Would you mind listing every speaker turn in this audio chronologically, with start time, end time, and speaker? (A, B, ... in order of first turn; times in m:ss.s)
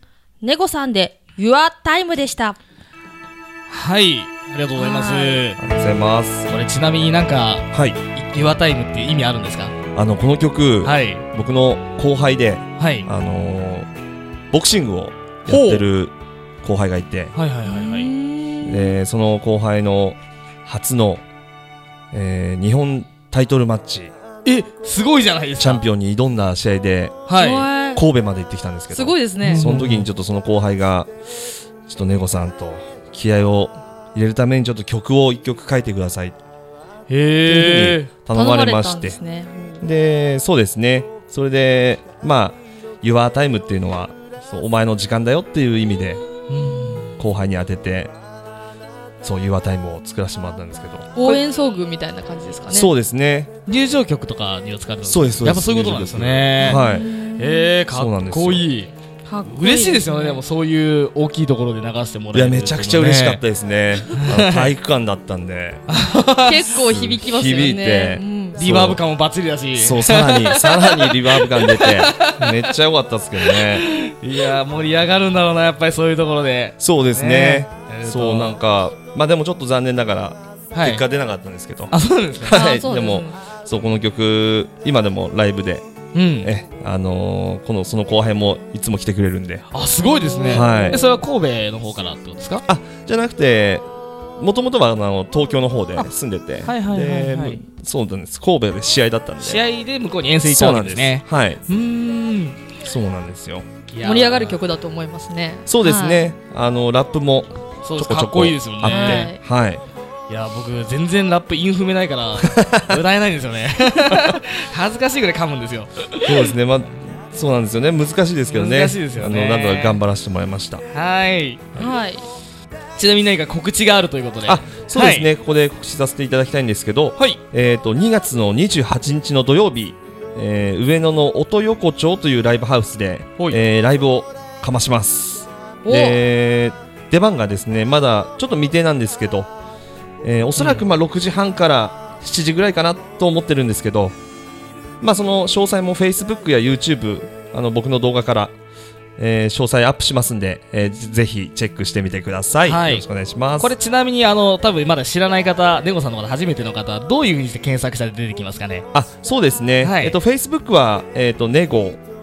0:00.4-0:02.6 A
0:03.7-0:05.6 B
0:04.8-0:05.4 A
0:05.6-0:06.5 C
0:06.5-0:09.7 B
0:07.7-0:08.0 C
0:09.9-0:13.9 C
0:10.8-0:11.2 B
0:12.8-0:13.1 B
0:14.5-0:17.3 C
0:15.5-0:15.8 B
0:17.4-0:18.1 B
0:17.6-0:19.0 A
0:18.6-0:21.2 C
0:22.1-0:24.1 C
0:24.4-0:25.8 B
0:25.6-0:27.3 C
0:27.3-0:27.7 B
0:27.4-0:28.0 A
0:27.9-0:31.1 C
0:28.9-0:29.6 A
0:29.4-0:30.1 B
0:31.8-0:36.4 C
0:37.1-0:38.1 B
0:37.4-0:39.2 C
0:38.3-0:39.8 A
0:39.8-0:46.3 C
0:46.5-0:47.1 B
0:47.2-0:48.1 C
0:49.2-0:51.1 C
0:51.2-0:52.9 A
0:52.7-0:53.5 C
0:53.6-0:58.9 B
0:55.0-0:57.1 C
0:56.6-0:57.7 A
0:57.9-0:58.7 C
0:59.3-1:00.4 A
0:59.4-1:03.4 B
1:02.3-1:05.8 C
1:04.1-1:04.7 B
1:05.9-1:06.7 B
1:06.4-1:08.6 A
1:06.8-1:09.0 C
1:08.6-1:12.7 B
1:09.8-1:13.9 C
1:13.4-1:18.6 B
1:16.8-1:25.8 C
1:20.7-1:21.0 B
1:21.9-1:22.6 B
1:22.5-1:23.4 A
1:26.1-1:26.5 B
1:26.4-1:29.7 C
1:29.7-1:32.6 B
1:30.0-1:31.2 A
1:30.5-1:31.0 C
1:32.6-1:33.8 C
1:34.4-1:39.6 C
1:36.6-1:37.6 B
1:39.4-1:42.6 B
1:40.4-1:41.6 C
1:42.8-1:43.7 C
1:43.9-1:44.6 B
1:44.0-1:46.2 A
1:45.7-1:49.8 C
1:47.8-1:49.3 B
1:48.9-1:49.4 A
1:50.3-1:56.5 B
1:52.4-1:53.0 C
1:56.2-2:00.8 C
1:58.5-2:00.0 B
2:00.9-2:01.8 B
2:01.8-2:02.2 A
2:03.0-2:05.3 B
2:04.4-2:19.5 C
2:15.8-2:16.2 A
2:20.2-2:24.2 C
2:20.6-2:20.8 B
2:25.0-2:28.5 C
2:29.2-2:33.7 C
2:32.6-2:33.0 B
2:33.6-2:38.9 B
2:38.9-2:42.0 C
2:39.8-2:40.2 B